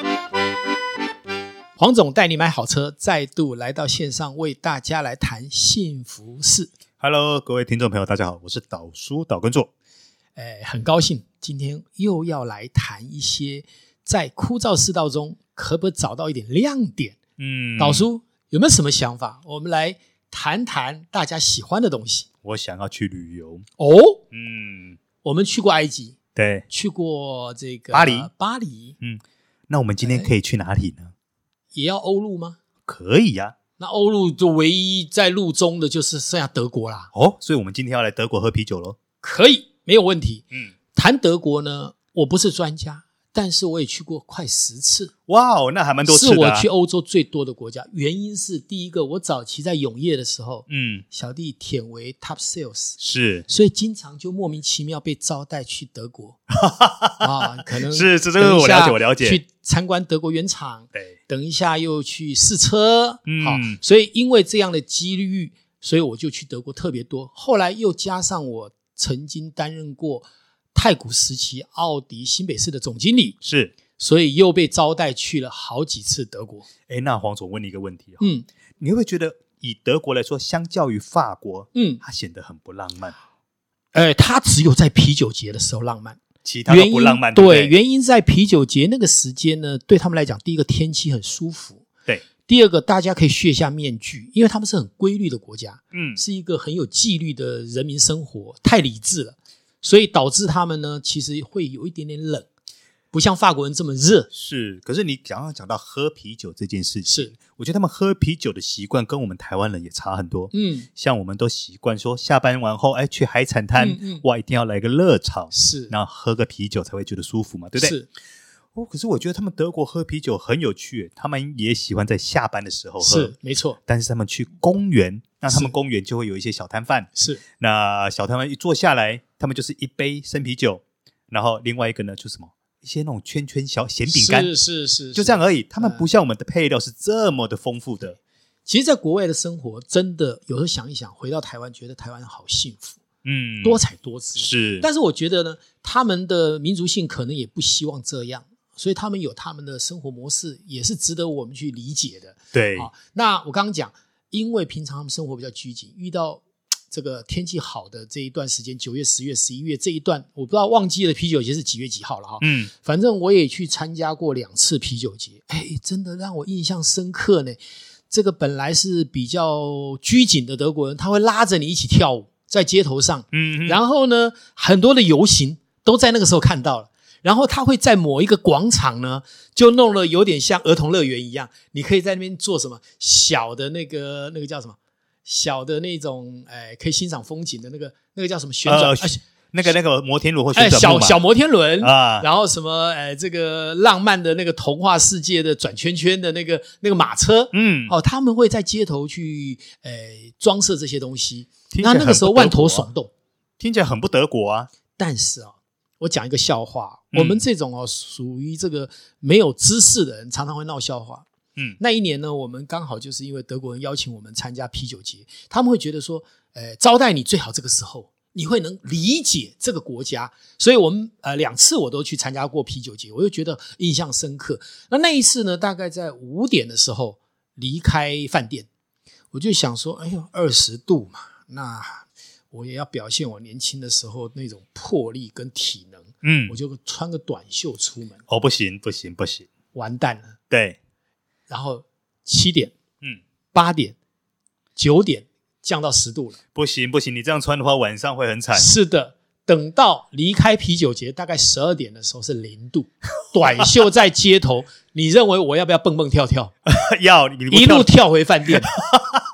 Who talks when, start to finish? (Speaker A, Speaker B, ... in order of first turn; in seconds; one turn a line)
Speaker A: 1.8-6.7
Speaker B: 7.0-9.7
Speaker A: 10.4-17.2
Speaker B: 17.4-18.1
Speaker A: 17.8-22.3
Speaker B: 22.4-23.7
Speaker A: 23.8-24.2
Speaker B: 24.3-25.0
Speaker A: 25.2-26.2
Speaker B: 26.4-26.6
Speaker A: 26.7-29.0
Speaker B: 27.9-28.3
Speaker B: 29.0-31.1
Speaker A: 30.0-30.3
Speaker A: 31.7-32.6
Speaker B: 32.9-33.5
Speaker A: 33.8-37.1
Speaker B: 37.1-39.0
Speaker A: 39.2-45.1
Speaker B: 45.3-46.7
Speaker A: 46.1-56.4
Speaker B: 50.7-51.0
Speaker B: 53.0-53.5
Speaker B: 56.5-59.4
Speaker A: 57.2-73.4
Speaker B: 63.3-63.8
Speaker B: 73.4-73.7
Speaker A: 74.0-76.7
Speaker B: 76.9-78.2
Speaker A: 78.2-78.5
Speaker B: 78.8-83.2
Speaker A: 81.7-82.0
Speaker A: 83.9-91.8
Speaker B: 86.5-87.7
Speaker A: 92.5-102.5
Speaker B: 95.9-96.2
Speaker A: 103.1-104.3
Speaker B: 104.3-118.0
Speaker A: 107.1-107.4
Speaker A: 110.5-110.9
Speaker A: 113.8-114.2
Speaker A: 115.5-115.9
Speaker A: 117.8-118.1
Speaker B: 118.7-123.3
Speaker A: 123.0-123.8
Speaker B: 123.9-134.5
Speaker A: 127.2-127.4
Speaker A: 134.1-136.0
Speaker B: 135.2-138.2
Speaker A: 138.7-143.0
Speaker B: 143.2-143.8
Speaker A: 143.6-167.6
Speaker B: 144.4-144.9
Speaker B: 152.5-152.9
Speaker B: 162.4-162.7
Speaker A: 168.1-189.2
Speaker B: 173.3-173.8
Speaker B: 188.7-191.2
Speaker A: 190.5-203.1
Speaker B: 191.8-192.3
Speaker B: 197.5-197.9
Speaker B: 201.7-202.9
Speaker B: 203.6-204.7
Speaker A: 205.0-211.3
Speaker B: 207.1-207.4
Speaker A: 211.8-228.7
Speaker A: 229.3-238.2
Speaker B: 236.2-236.6
Speaker B: 238.3-239.5
Speaker A: 239.7-240.4
Speaker B: 240.5-240.8
Speaker A: 241.5-242.8
Speaker A: 243.5-244.0
Speaker A: 244.8-246.4
Speaker B: 246.6-248.7
Speaker A: 248.6-256.5
Speaker B: 256.7-257.9
Speaker A: 257.5-258.7
Speaker B: 258.5-259.2